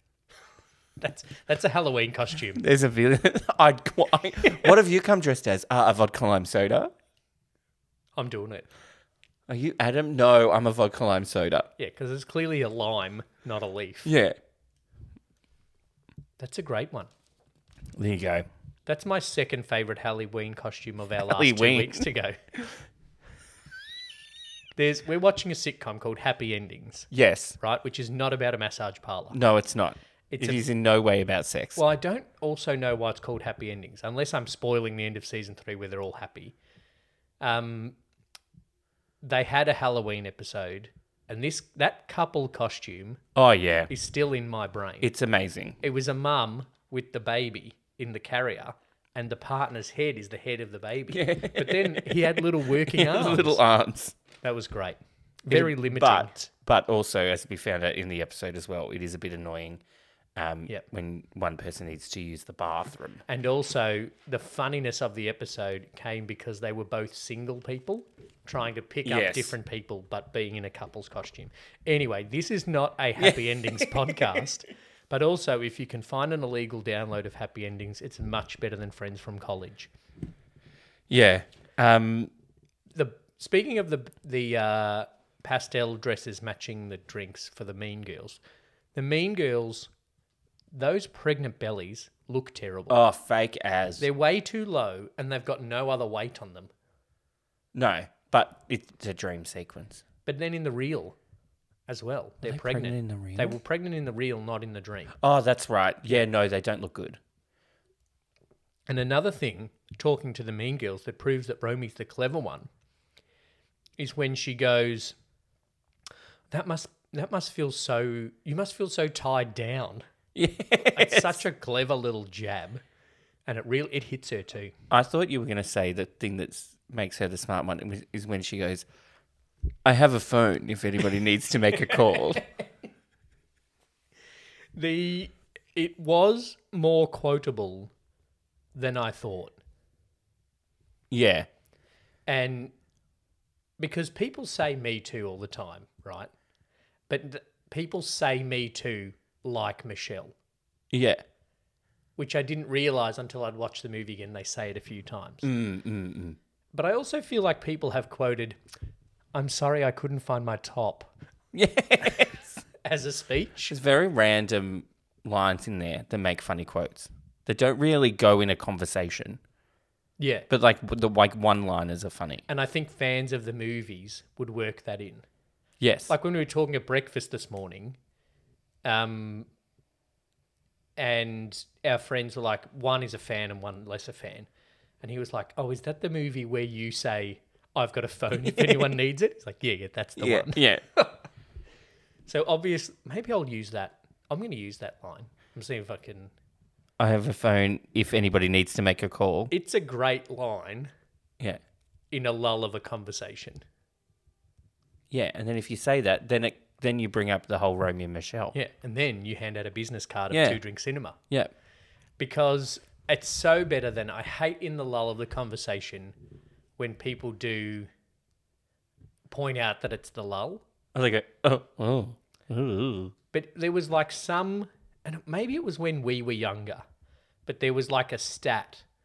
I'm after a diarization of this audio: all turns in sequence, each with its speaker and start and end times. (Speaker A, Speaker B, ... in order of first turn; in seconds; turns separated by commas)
Speaker A: 1.0-2.6, Speaker B: 2.5-6.9, Speaker A: 8.2-8.7, Speaker B: 9.5-11.7, Speaker A: 11.8-14.1, Speaker B: 14.0-14.3, Speaker A: 16.4-17.1, Speaker B: 17.9-18.5, Speaker A: 18.9-22.4, Speaker B: 21.2-22.1, Speaker A: 24.8-27.1, Speaker B: 27.1-27.6, Speaker A: 27.6-29.4, Speaker B: 29.3-31.8, Speaker A: 30.3-30.6, Speaker A: 31.8-36.5, Speaker A: 37.4-37.9, Speaker A: 39.2-43.2, Speaker B: 43.4-43.9, Speaker A: 43.9-45.1, Speaker B: 45.0-45.8, Speaker A: 45.8-53.6, Speaker B: 51.1-54.1, Speaker A: 54.4-56.4, Speaker B: 55.5-59.8, Speaker B: 60.4-63.2, Speaker A: 63.3-79.9, Speaker B: 69.0-69.5, Speaker B: 73.2-74.4, Speaker B: 81.1-82.3, Speaker A: 82.9-88.4, Speaker A: 88.9-89.9, Speaker A: 90.7-93.0, Speaker B: 92.9-94.0, Speaker A: 94.0-96.7, Speaker B: 97.7-100.0, Speaker A: 100.2-101.2, Speaker A: 101.9-105.1, Speaker B: 102.4-103.6, Speaker B: 105.2-107.2, Speaker A: 108.9-112.7, Speaker A: 114.0-115.1, Speaker A: 116.5-120.0, Speaker B: 120.3-121.4, Speaker A: 120.9-122.8, Speaker A: 123.5-124.7, Speaker B: 124.9-128.8, Speaker B: 129.8-132.4, Speaker A: 134.7-137.9, Speaker A: 138.7-139.6, Speaker B: 141.1-141.5, Speaker A: 142.3-142.7, Speaker A: 143.8-146.3, Speaker A: 147.1-150.3, Speaker B: 150.9-151.2, Speaker A: 152.2-155.4, Speaker B: 155.4-156.4, Speaker A: 156.7-158.6, Speaker A: 159.3-161.1, Speaker B: 161.5-162.6, Speaker A: 162.8-163.7, Speaker B: 163.7-169.4, Speaker A: 170.2-170.5, Speaker B: 170.5-172.4, Speaker A: 172.5-175.2, Speaker B: 175.8-176.1, Speaker A: 176.1-178.0, Speaker A: 178.8-179.5, Speaker A: 181.0-184.5, Speaker A: 185.0-191.1, Speaker B: 188.4-188.9, Speaker B: 190.2-190.8, Speaker A: 192.2-196.3, Speaker B: 197.0-199.5, Speaker A: 199.5-200.9, Speaker A: 202.1-203.6, Speaker B: 205.1-208.5, Speaker A: 208.5-211.2, Speaker B: 210.3-210.6, Speaker A: 212.2-216.1, Speaker A: 216.8-217.9, Speaker A: 219.3-220.6, Speaker B: 220.9-223.1, Speaker A: 223.3-226.8, Speaker A: 227.4-228.8